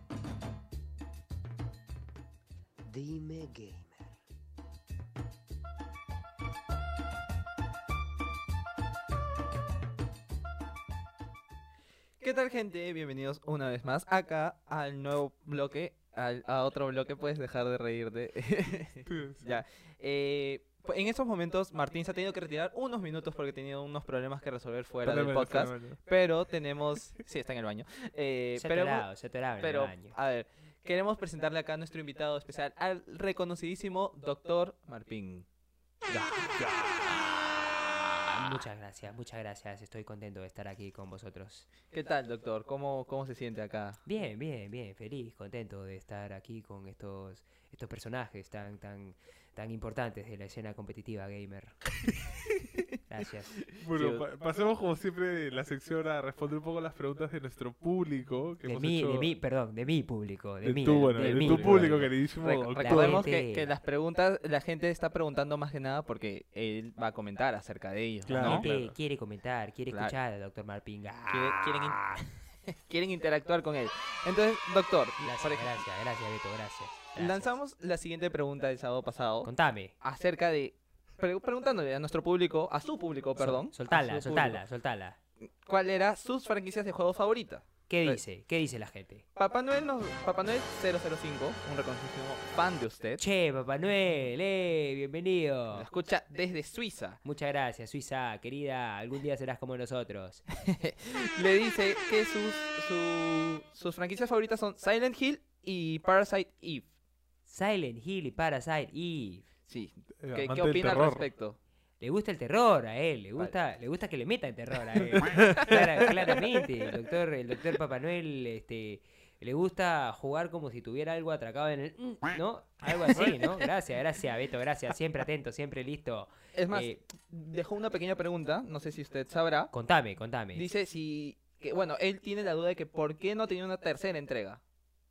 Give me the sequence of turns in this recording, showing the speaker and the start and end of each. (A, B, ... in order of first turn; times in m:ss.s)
0:02.8-0:04.1 A
0:12.2-0:29.1 B
0:19.1-0:19.6 C
0:25.0-0:26.0 C
0:28.6-0:30.1 A
0:29.6-0:35.4 B
0:36.1-0:36.8 B
0:36.6-0:37.0 C
0:36.6-0:37.3 A
0:38.3-0:41.7 A
0:41.9-0:44.0 B
0:44.1-0:51.8 A
0:53.1-0:53.6 A
0:53.8-0:59.3 C
0:53.8-0:54.3 B
0:58.6-1:02.1 A
1:00.6-1:03.3 C
1:01.2-1:08.7 B
1:02.8-1:03.7 A
1:08.2-1:08.9 C
1:08.3-1:12.0 A
1:09.9-1:10.2 B
1:11.3-1:12.3 B
1:12.9-1:15.8 B
1:15.2-1:17.5 A
1:17.2-1:19.5 B
1:19.4-1:19.9 A
1:20.0-1:24.6 B
1:23.4-1:25.2 A
1:25.6-1:28.2 B
1:27.9-1:29.2 A
1:29.4-1:33.2 B
1:33.2-1:35.9 A
1:35.7-1:37.2 B
1:37.2-1:40.4 A
1:40.6-1:46.9 B
1:47.5-1:49.4 A
1:49.7-1:51.6 B
1:50.2-1:51.3 C
1:52.0-2:07.0 A
1:55.1-1:55.9 C
2:06.6-2:09.7 B
2:09.7-2:10.6 A
2:10.6-2:14.6 B